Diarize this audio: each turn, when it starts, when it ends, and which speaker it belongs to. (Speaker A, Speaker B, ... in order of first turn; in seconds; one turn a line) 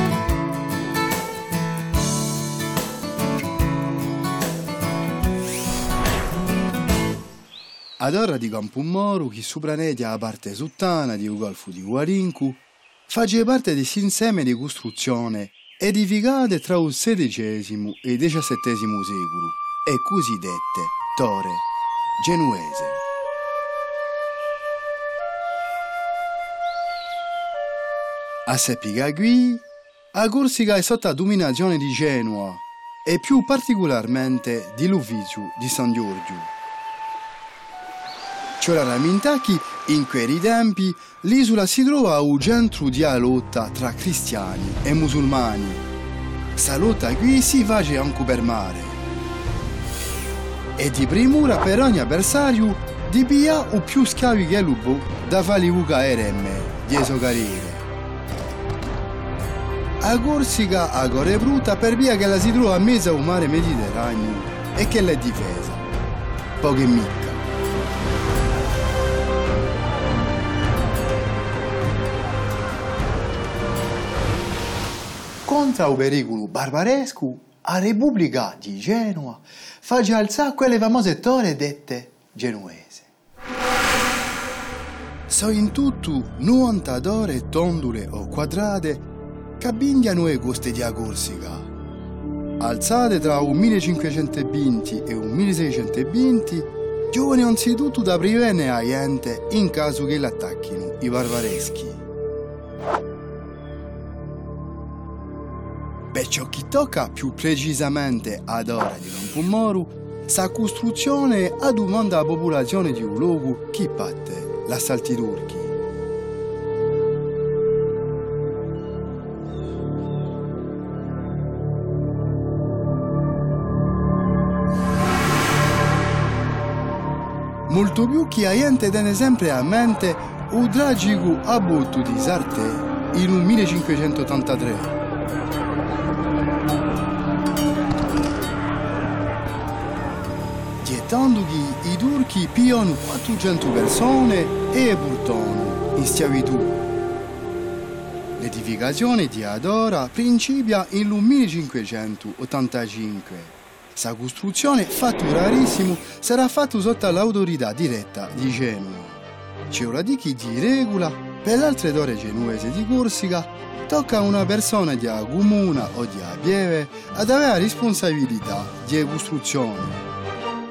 Speaker A: 8.0-21.6
Speaker A: 22.2-23.0
Speaker A: 28.5-36.5
Speaker A: 38.6-45.8
Speaker A: 46.6-49.0
Speaker A: 50.8-57.8
Speaker A: 60.0-65.8
Speaker A: 66.6-67.4
Speaker A: 75.5-83.1
Speaker A: 85.3-89.1
Speaker A: 89.6-91.7
Speaker A: 92.6-102.0
Speaker A: 106.1-115.8
Speaker A: 127.7-135.0
Speaker A: 140.8-146.8
Speaker A: 148.4-170.0